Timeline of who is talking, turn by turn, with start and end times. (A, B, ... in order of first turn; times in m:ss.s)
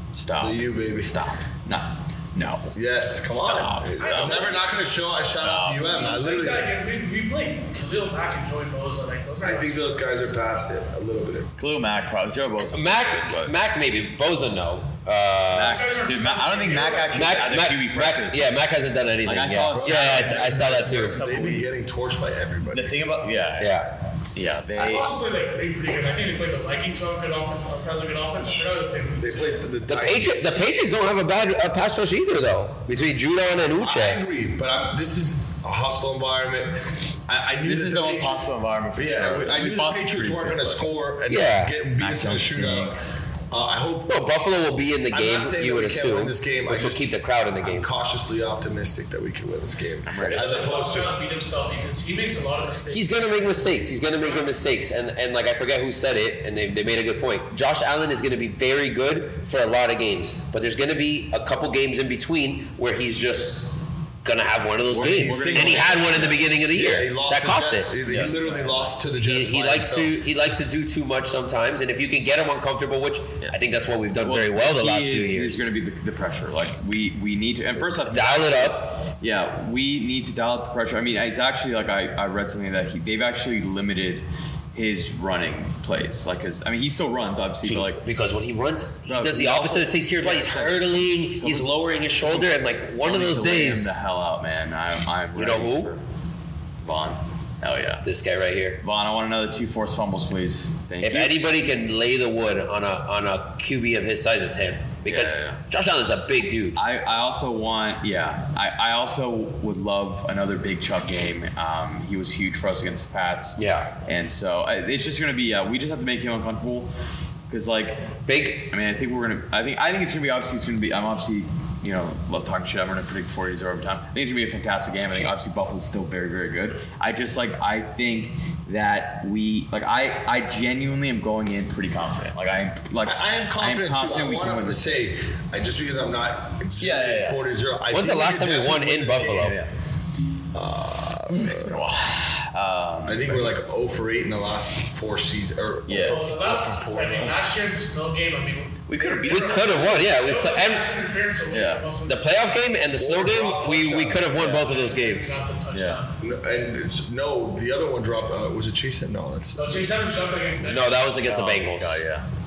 0:00.1-0:02.7 A
0:00.4-0:01.2 B
0:02.7-0:06.7 B
0:03.3-0:04.6 A
0:04.0-0:04.7 C
0:05.4-0:06.2 A
0:05.9-0:10.4 C
0:09.4-0:11.5 B
0:11.6-0:13.5 A
0:12.7-0:15.8 D
0:15.5-0:18.5 A
0:15.6-0:17.3 C
0:17.1-0:21.2 D
0:19.2-0:21.7 A
0:19.7-0:23.0 B
0:22.7-0:25.2 A
0:23.6-0:23.9 D
0:24.8-0:29.6 C
0:29.2-0:30.5 B
0:29.9-0:34.2 D
0:33.8-0:43.0 B
0:37.6-0:40.9 A
0:41.3-0:41.7 D
0:42.0-0:43.1 A
0:43.5-0:44.2 B
0:44.1-0:47.9 D
0:45.1-0:51.1 B
0:50.0-0:50.5 A
0:50.3-0:54.6 C
0:52.9-1:03.7 D
1:04.2-1:07.9 D
1:04.9-1:06.4 A
1:05.0-1:10.2 B
1:08.0-1:08.9 A
1:09.2-1:15.7 D
1:14.2-1:28.0 A
1:17.8-1:19.0 D
1:27.6-1:33.9 D
1:29.1-1:36.0 A
1:35.3-1:35.9 D
1:36.8-1:38.0 A
1:38.0-1:38.8 D
1:38.8-1:41.4 A
1:41.0-1:46.8 D
1:45.0-1:45.6 A
1:46.8-1:56.9 A
1:53.6-1:53.9 D
1:57.5-1:58.1 A
1:58.3-1:58.7 D
1:58.7-2:15.1 A
2:13.0-2:19.6 B
2:16.8-2:17.5 A
2:17.9-2:19.6 D
2:19.3-2:19.7 A
2:20.5-2:21.7 B
2:21.3-2:23.5 A
2:23.0-2:27.5 B
2:25.9-2:26.4 A
2:26.0-2:32.2 C
2:28.9-2:29.8 A
2:29.2-2:30.9 D
2:31.5-2:31.9 A
2:32.0-2:35.3 D
2:33.0-2:34.4 B
2:34.4-2:34.6 A
2:34.4-2:36.1 C
2:35.7-2:36.0 A
2:36.2-2:39.9 B
2:39.6-2:41.2 C
2:40.6-2:42.0 D
2:41.2-2:42.2 A